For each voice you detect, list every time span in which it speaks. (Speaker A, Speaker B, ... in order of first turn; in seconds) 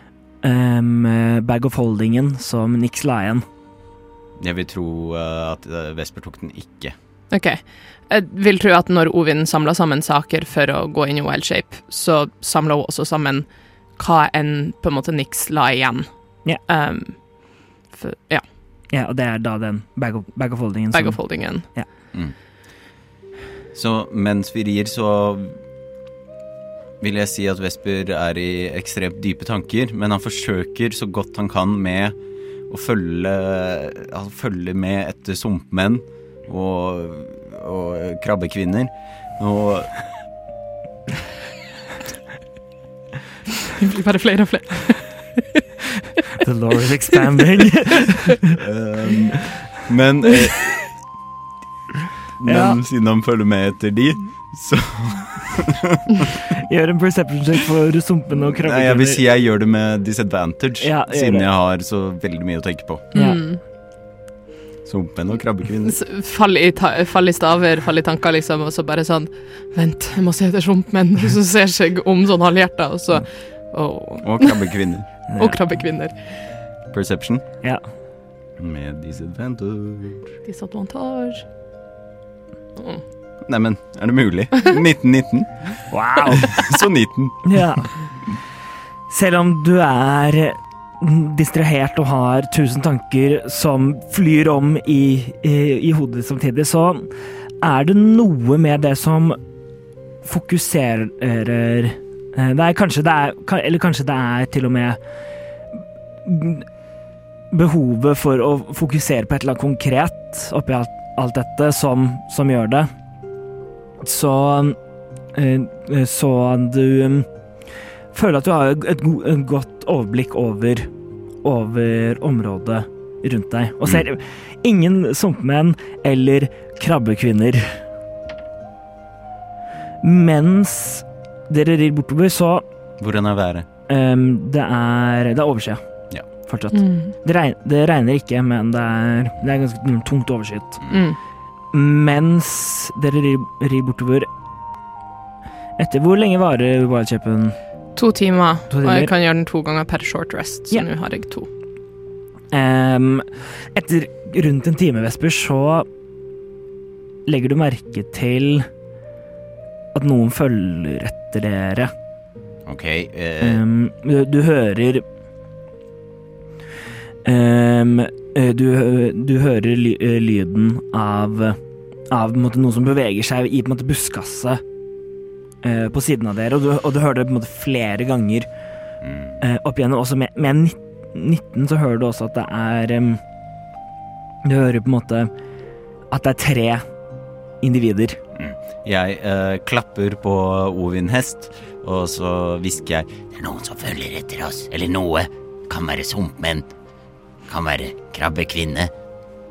Speaker A: 0.4-3.4, 18.9-21.9, 46.4-48.6, 52.4-52.8, 56.5-59.2, 60.8-61.5, 63.1-63.4, 75.3-75.6, 85.9-86.5, 87.4-88.0, 89.1-99.4, 100.2-105.0, 105.8-106.7, 107.5-112.9, 114.0-114.8, 115.3-117.3, 118.1-120.9, 121.4-127.8, 130.0-132.6, 133.9-135.8, 136.4-140.8, 141.7-144.3, 145.8-147.6, 148.7-149.1, 152.5-155.9, 157.2-158.7, 159.9-161.9, 163.4-165.0, 167.2-171.6, 172.1-174.6, 175.6-178.5, 179.4-183.2, 184.4-185.3, 186.1-186.8, 187.6-188.2
Speaker B: 4.4-6.9, 23.7-25.6, 27.0-32.1, 32.7-40.0, 48.6-51.0, 52.4-56.4, 58.5-63.0, 64.8-66.0, 74.2-75.1, 76.9-77.4, 78.6-80.3, 83.5-87.6, 133.0-133.7, 162.7-163.6, 179.0-179.3, 188.3-196.7, 197.5-198.9
Speaker C: 7.3-18.4, 20.9-21.6, 43.8-45.6, 63.1-63.6, 65.8-74.6, 75.3-76.5, 80.4-81.4, 82.8-83.0, 136.7-137.1, 140.9-141.2, 147.9-151.5